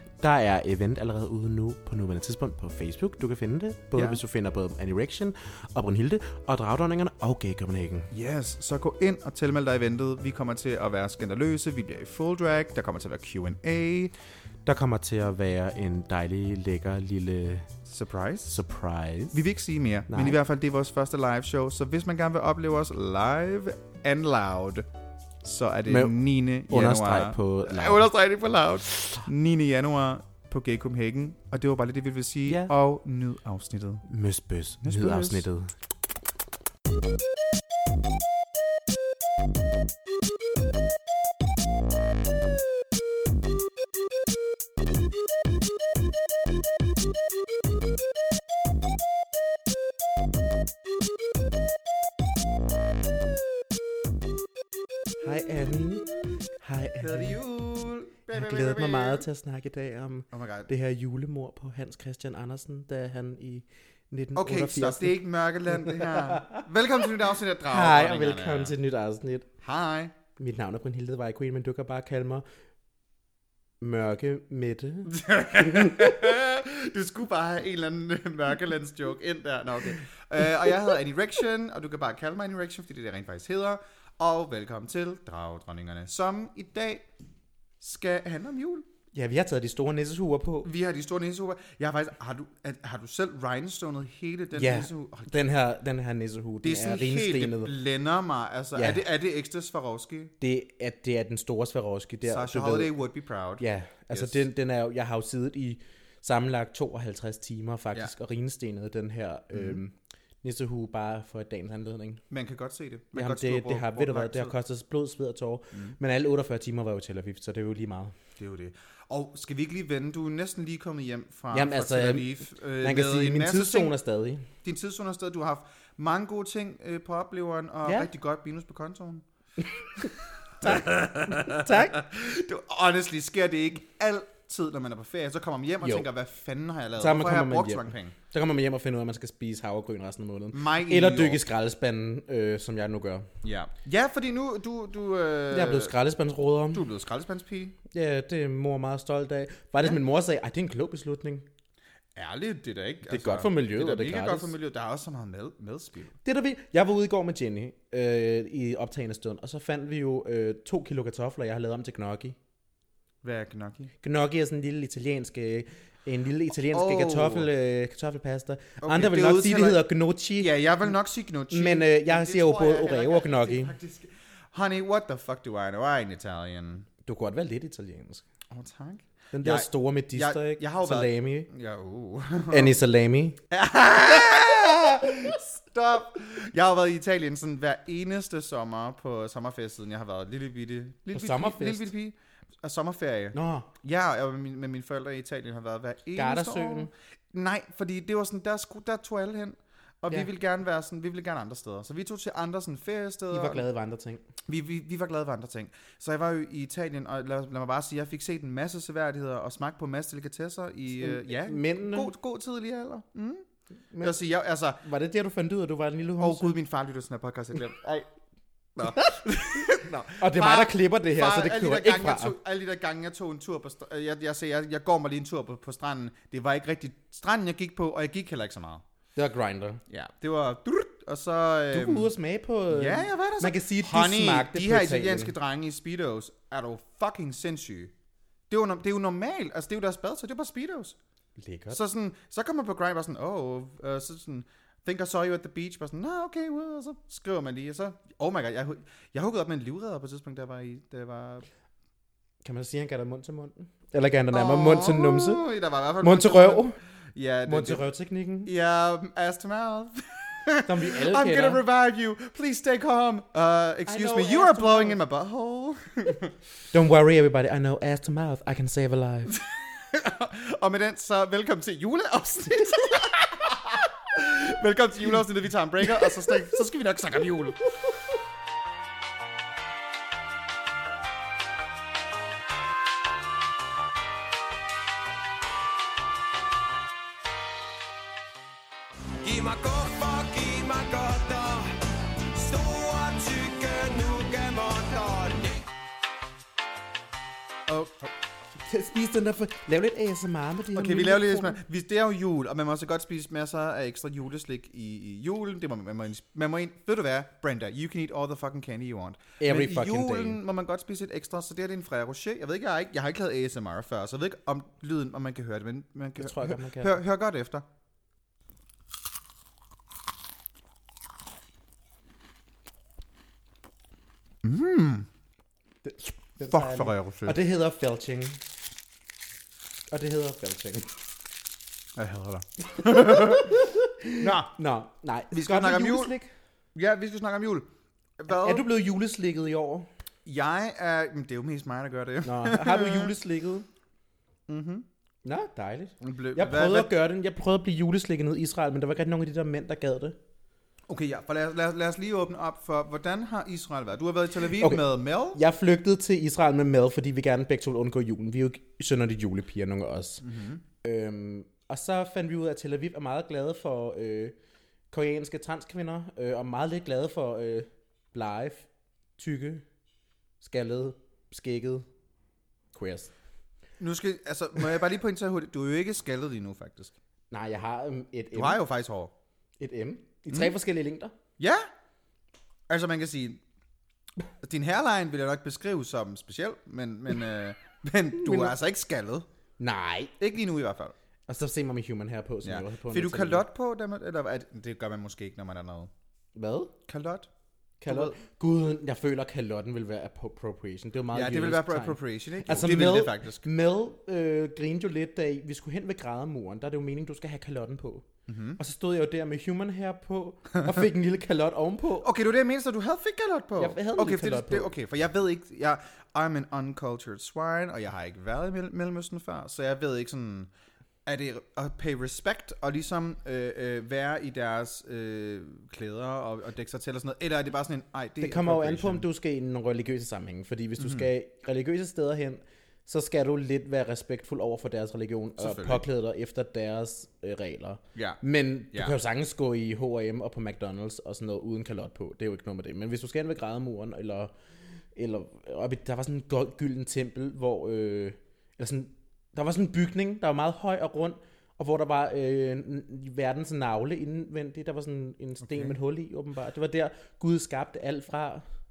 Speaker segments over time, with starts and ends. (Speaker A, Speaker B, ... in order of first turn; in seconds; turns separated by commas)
Speaker A: 0.2-8.1, Speaker B: 3.9-4.2, Speaker B: 8.1-14.1, Speaker A: 14.7-17.7, Speaker B: 17.9-18.6, Speaker A: 18.5-19.4, Speaker B: 19.3-24.9, Speaker A: 20.1-20.4, Speaker B: 25.4-34.1, Speaker A: 25.9-26.1, Speaker A: 26.7-28.1, Speaker A: 32.5-32.7, Speaker A: 34.1-35.7, Speaker B: 34.8-35.5, Speaker A: 55.2-56.1, Speaker B: 56.0-56.4, Speaker A: 56.6-57.4, Speaker B: 57.0-59.3, Speaker A: 58.3-67.0, Speaker B: 60.3-60.7, Speaker B: 64.3-68.8, Speaker A: 67.6-69.5, Speaker B: 69.6-70.1, Speaker A: 70.4-72.4, Speaker A: 73.8-76.2, Speaker B: 75.0-87.0, Speaker B: 87.8-88.9, Speaker A: 89.1-90.7, Speaker B: 90.6-95.3, Speaker A: 94.5-97.7, Speaker B: 96.6-100.3, Speaker A: 98.7-99.0, Speaker A: 100.4-102.9, Speaker B: 102.2-104.4, Speaker A: 103.6-112.2, Speaker B: 109.5-109.8, Speaker B: 112.3-114.5, Speaker A: 113.1-118.1, Speaker B: 118.4-123.9, Speaker A: 121.5-124.5, Speaker B: 124.6-129.2, Speaker A: 129.8-130.1, Speaker B: 130.6-138.2, Speaker A: 130.6-132.0, Speaker A: 135.8-136.1, Speaker A: 137.0-143.3, Speaker B: 140.5-141.4, Speaker B: 143.4-145.9, Speaker A: 145.5-146.8, Speaker B: 146.7-147.8, Speaker A: 147.9-151.5, Speaker B: 152.1-156.1, Speaker A: 153.0-154.5, Speaker A: 156.2-162.3, Speaker B: 163.2-163.9, Speaker A: 164.0-170.6, Speaker B: 166.7-167.5, Speaker B: 168.8-169.8, Speaker B: 170.4-176.9, Speaker A: 171.5-173.7, Speaker A: 177.0-178.2, Speaker B: 178.5-182.7, Speaker A: 179.3-181.5, Speaker A: 182.5-183.4, Speaker B: 183.5-203.6, Speaker A: 191.1-191.9, Speaker A: 193.3-193.7, Speaker A: 196.2-196.9, Speaker A: 203.3-204.2, Speaker B: 204.5-213.4, Speaker A: 211.0-212.1, Speaker A: 213.9-214.2, Speaker B: 214.0-214.8, Speaker A: 214.8-216.6, Speaker B: 216.2-218.1, Speaker B: 218.8-228.8, Speaker A: 220.2-222.3, Speaker A: 229.2-229.8, Speaker B: 229.9-232.1, Speaker A: 231.7-235.3, Speaker B: 232.7-237.9, Speaker B: 238.5-241.0, Speaker A: 241.4-241.8, Speaker B: 241.7-251.5, Speaker A: 252.4-255.4, Speaker B: 254.3-257.8, Speaker A: 256.0-256.8, Speaker A: 257.5-258.5, Speaker B: 258.4-266.3, Speaker A: 260.6-261.6, Speaker A: 263.9-265.0, Speaker A: 266.7-269.4, Speaker B: 269.3-277.7, Speaker C: 289.2-295.6, Speaker B: 297.7-298.1, Speaker A: 298.6-301.6, Speaker B: 300.7-317.6, Speaker A: 309.4-310.4, Speaker A: 316.2-316.9, Speaker B: 324.4-325.1, Speaker A: 325.8-328.4, Speaker B: 326.4-327.4, Speaker A: 329.9-330.9, Speaker B: 331.9-333.6, Speaker A: 332.6-336.3, Speaker B: 334.2-334.5, Speaker B: 335.3-336.1, Speaker B: 336.7-337.7, Speaker B: 338.2-338.6, Speaker A: 338.3-339.9, Speaker B: 340.2-343.1, Speaker A: 342.2-343.6, Speaker B: 344.5-344.9, Speaker A: 345.2-350.2, Speaker B: 346.0-346.9, Speaker B: 350.9-355.4, Speaker A: 354.6-360.2, Speaker B: 360.2-360.6, Speaker A: 360.8-364.3, Speaker A: 364.9-369.6, Speaker A: 370.4-371.9, Speaker A: 372.7-373.1, Speaker B: 373.8-376.9, Speaker A: 377.3-378.6, Speaker B: 378.3-379.1, Speaker A: 379.6-381.1, Speaker B: 381.4-381.7, Speaker B: 382.7-383.4, Speaker B: 384.4-389.3, Speaker A: 388.2-388.5, Speaker A: 389.6-390.1, Speaker B: 390.2-390.9, Speaker A: 391.3-393.4, Speaker B: 392.4-395.9, Speaker A: 396.4-396.7, Speaker B: 396.9-397.3, Speaker A: 397.8-408.0, Speaker B: 397.9-398.2, Speaker B: 401.1-403.5, Speaker B: 408.3-408.6, Speaker A: 408.6-412.1, Speaker B: 410.5-410.8, Speaker B: 412.0-420.5, Speaker A: 413.6-414.7, Speaker B: 421.1-429.1, Speaker A: 428.2-444.3, Speaker B: 430.8-431.1, Speaker B: 435.4-435.8, Speaker B: 437.9-438.9, Speaker A: 444.9-458.4, Speaker B: 455.4-455.7